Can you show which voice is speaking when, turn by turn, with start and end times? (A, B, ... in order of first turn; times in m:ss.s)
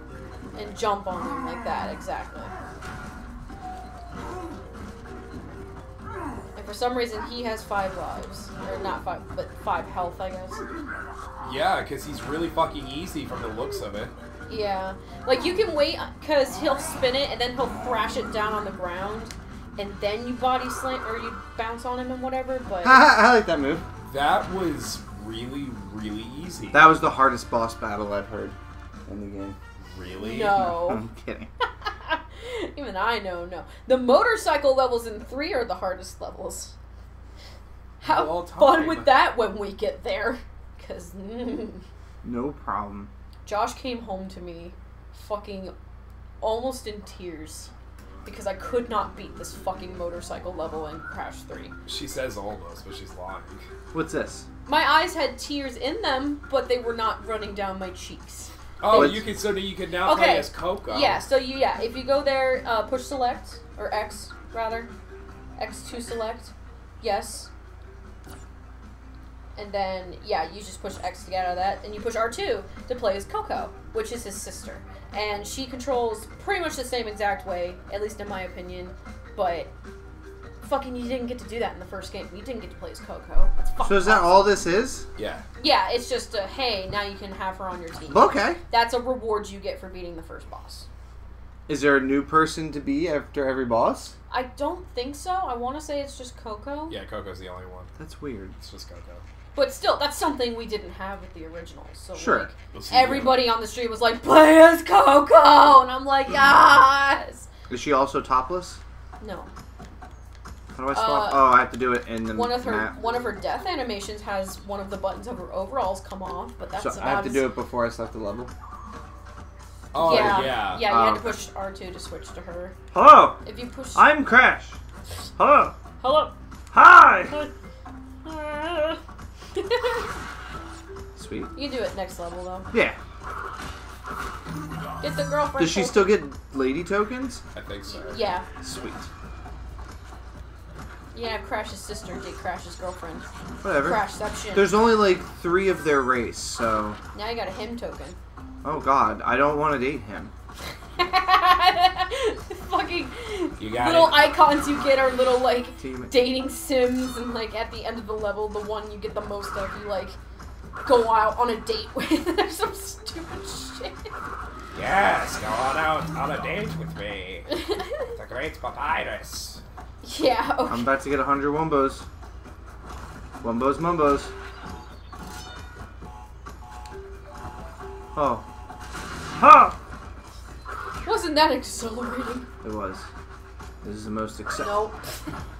0:00.5-0:02.5 A
0:06.5-0:10.6 A
0:11.4-0:14.1 B
0:14.5-0:23.1 A
0:22.8-0:23.8 C
0:24.1-0:26.9 B
0:26.7-0:28.6 C
0:29.1-0:29.6 C
0:29.8-0:30.7 B
0:30.2-0:31.0 A
0:30.5-0:31.5 C
0:31.8-0:36.7 A
0:38.0-0:39.2 B
0:38.0-0:41.8 A
0:42.2-0:43.1 C
0:43.4-0:45.7 A
0:46.4-0:47.7 A
0:48.2-0:51.7 A
0:51.8-0:53.7 B
0:53.9-0:54.5 C
0:54.6-0:59.3 A
0:58.8-1:01.2 B
0:58.9-0:59.2 C
1:00.0-1:04.9 A
1:05.6-1:07.5 A
1:09.6-1:19.7 A
1:20.6-1:24.5 A
1:23.8-1:25.1 C
1:25.2-1:25.4 B
1:25.6-1:30.8 A
1:28.1-1:28.6 C
1:31.7-1:34.1 C
1:34.3-1:37.0 A
1:36.9-1:37.9 B
1:38.0-1:38.5 C
1:38.6-1:39.2 B
1:39.5-1:47.5 A
1:42.1-1:42.5 C
1:42.7-1:43.5 B
1:47.7-1:48.8 C
1:49.2-1:49.5 A
1:50.8-1:52.9 C
1:50.9-1:51.6 A
1:52.3-1:57.5 A
1:56.8-1:58.5 C
1:59.9-2:00.8 B
2:00.0-2:01.4 C
2:00.0-2:02.7 A
2:02.9-2:04.8 C
2:03.4-2:04.1 A
2:05.4-2:05.8 C
2:06.0-2:06.3 A
2:06.7-2:07.4 C
2:08.2-2:09.0 A
2:09.5-2:10.1 A
2:11.2-2:11.5 C
2:11.5-2:12.7 A
2:12.7-2:13.0 C
2:15.0-2:16.2 A
2:15.6-2:17.4 C
2:17.5-2:18.2 B
2:17.9-2:18.5 A
2:18.6-2:19.1 C
2:21.1-2:23.3 A
2:23.6-2:27.0 C
2:23.8-2:24.8 A
2:27.1-2:28.2 A
2:28.6-2:30.3 C
2:31.0-2:40.2 A
2:33.6-2:34.3 B
2:35.8-2:36.1 C
2:40.8-2:44.1 A
2:44.7-2:49.6 B
2:47.5-2:48.1 A
2:50.0-2:50.9 A
2:50.7-2:52.0 C
2:53.4-2:54.3 C
2:58.1-2:58.4 C
2:59.4-2:59.8 C
3:01.0-3:02.5 A
3:02.6-3:03.1 C
3:03.8-3:04.8 C
3:04.6-3:05.3 A